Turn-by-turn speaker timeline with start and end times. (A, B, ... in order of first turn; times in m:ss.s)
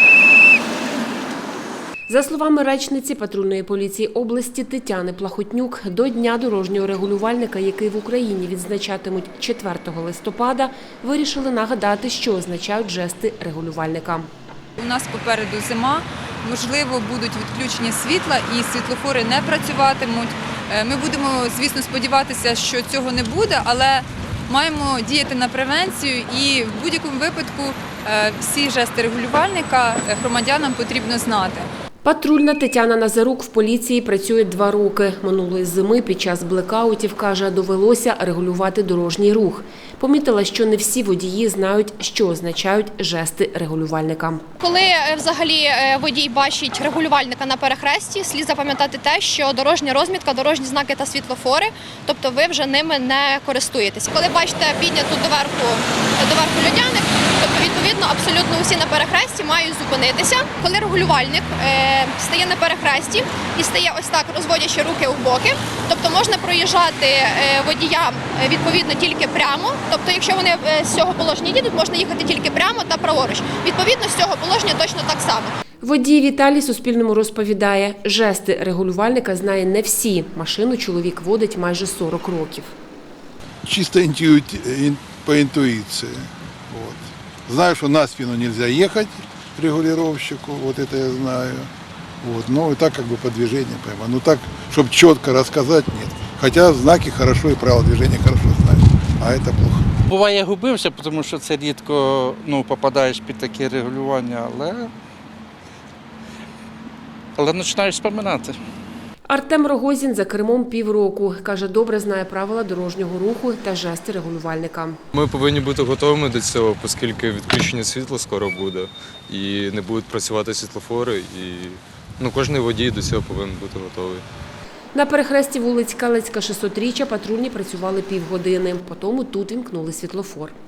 0:02.1-0:14.3 A
0:14.8-0:31.7 B
0:32.0-0:44.4 A
0:44.6-1:15.5 C
1:15.8-1:22.7 A
1:23.6-1:31.7 D
1:32.2-1:39.9 D
1:40.0-1:44.9 E
1:47.4-1:48.6 E
1:49.3-1:55.0 A
1:55.1-2:04.2 F
2:05.0-2:10.6 A